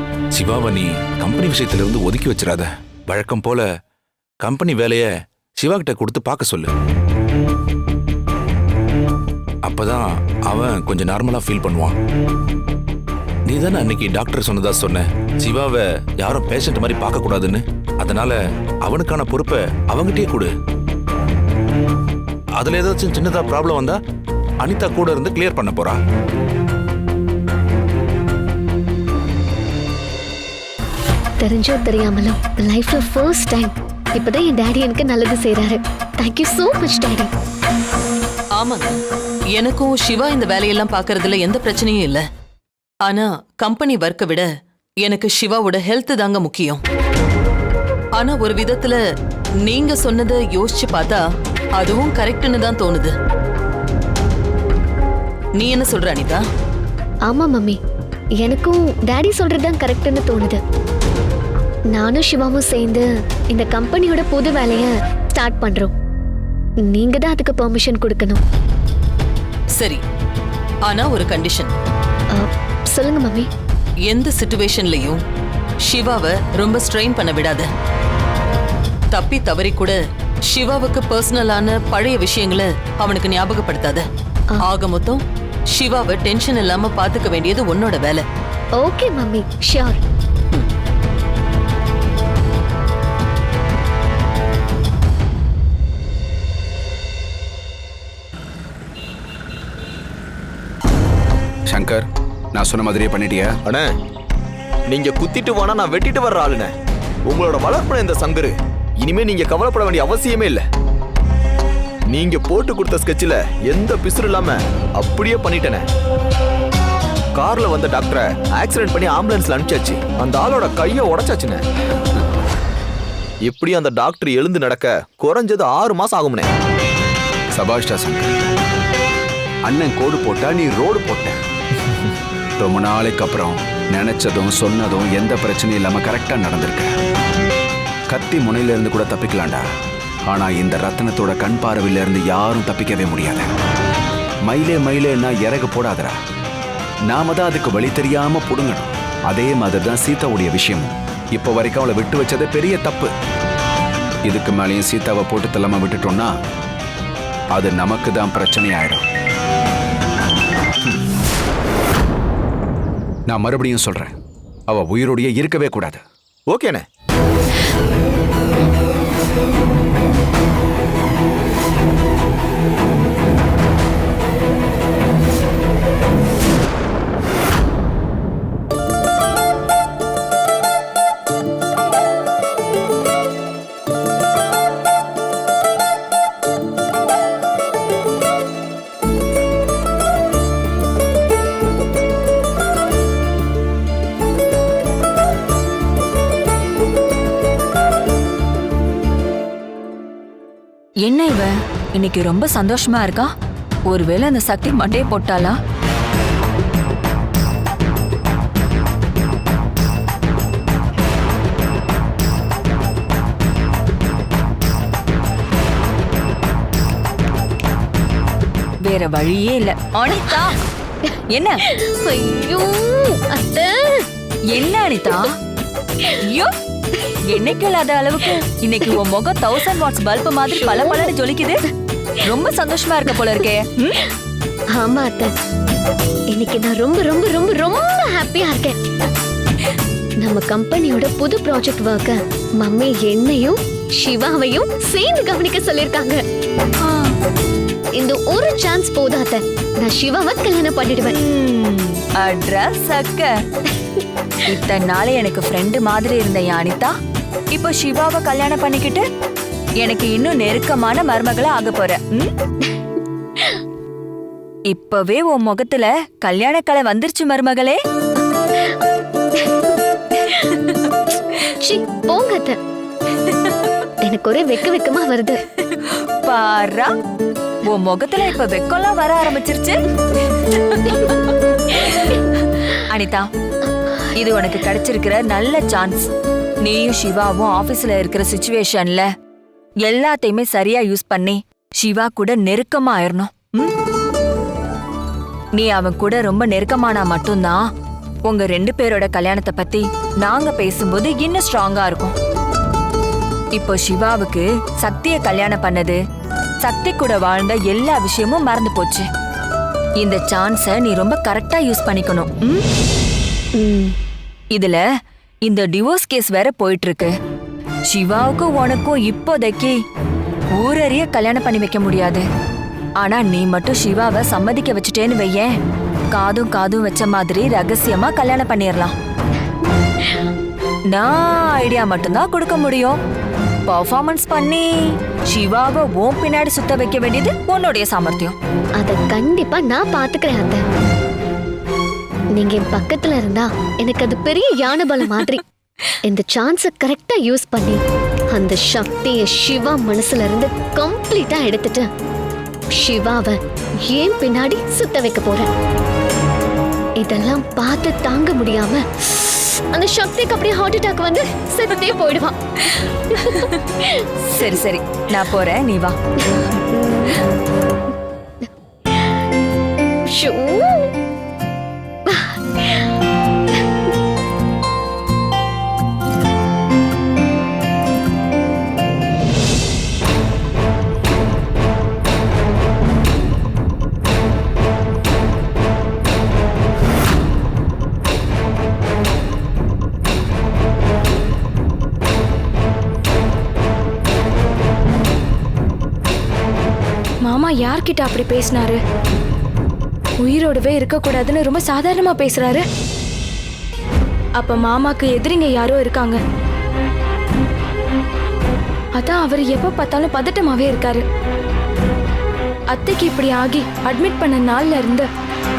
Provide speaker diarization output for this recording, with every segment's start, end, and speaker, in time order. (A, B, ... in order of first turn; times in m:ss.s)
0:00.3-0:03.7 A
0:04.4-0:06.7 A
0:09.6-0:12.0 A
0:13.5-0:20.5 A
0:22.6-0:24.0 A
0:24.6-0:26.0 A
0:31.4-0:37.3 B
0:38.6-0:39.0 C
0:39.5-0:42.2 C
0:43.0-0:44.5 C
0:45.0-0:46.8 C
0:48.2-0:49.0 C
0:49.6-0:51.2 C
0:51.8-0:53.1 C
0:55.6-0:56.4 C
0:57.3-0:57.8 B
0:58.4-1:00.6 B
1:01.9-1:05.9 B
1:06.8-1:08.4 B
1:09.8-1:10.0 C
1:10.8-1:11.7 C
1:12.3-1:13.5 B
1:14.1-1:15.2 C
1:15.9-1:17.7 C
1:19.1-1:24.0 C
1:24.6-1:25.2 C
1:25.7-1:28.2 C
1:28.8-1:30.0 B
1:41.7-1:43.5 D
1:43.6-1:43.9 E
1:44.9-1:46.7 E
1:47.3-1:50.6 E
1:52.1-1:55.8 E
1:57.4-2:01.6 E
2:03.4-2:06.5 E
2:07.6-2:08.3 D
2:09.7-2:11.4 D
2:12.6-2:16.9 D
2:18.1-2:19.6 D
2:20.3-2:23.5 D
2:24.5-2:26.2 D
2:27.1-2:33.1 D
2:34.2-2:36.3 D
2:37.5-2:39.0 D
2:43.3-2:44.2 D
2:44.7-2:46.0 D
2:46.5-2:46.8 E
3:21.0-3:23.3 F
3:23.9-3:25.6 F
3:38.8-3:40.6 F
3:41.3-3:41.6 F
3:41.7-3:44.1 B
3:44.5-3:45.3 F
3:46.2-3:46.5 F
3:47.2-3:51.6 F
3:50.6-3:51.1 B
3:52.2-3:54.0 F
3:54.7-3:55.3 B
3:56.3-3:58.8 B
4:00.2-4:06.2 B
4:08.0-4:11.1 B
4:11.1-4:13.3 F
4:14.4-4:16.9 F
4:17.5-4:19.0 F
4:19.8-4:22.3 F
4:24.7-4:27.8 F
4:30.3-4:30.5 B
4:31.4-4:32.6 B
4:34.0-4:35.4 B
4:35.7-4:36.9 F
4:37.6-4:39.8 F
4:40.6-4:41.1 F
4:42.8-4:43.3 F
4:44.1-4:46.1 F
4:46.6-4:49.1 F
4:49.8-4:53.7 F
4:55.6-4:57.7 F
4:58.2-5:02.1 F
5:03.5-5:06.0 F
5:06.6-5:09.1 F
5:10.0-5:12.6 F
5:13.6-5:14.0 B
5:14.5-5:14.8 F
5:15.4-5:17.1 F
5:17.9-5:19.8 F
5:20.6-5:22.2 F
5:23.0-5:25.5 F
5:26.1-5:28.9 F
5:30.9-5:33.0 F
5:33.7-5:38.4 F
5:38.8-5:40.6 B
5:42.3-5:45.4 B
5:46.0-5:47.8 B
5:48.3-5:51.9 B
5:52.7-5:55.5 B
5:57.0-6:02.4 B
6:03.1-6:04.1 B
6:03.2-6:03.5 F
6:04.2-6:06.0 F
6:06.2-6:07.2 B
6:08.4-6:09.2 B
6:10.1-6:10.9 B
6:12.0-6:12.9 B
6:37.2-6:38.8 G
6:40.2-6:42.6 G
6:44.4-6:46.2 G
6:49.0-6:51.0 G
6:52.7-6:55.1 G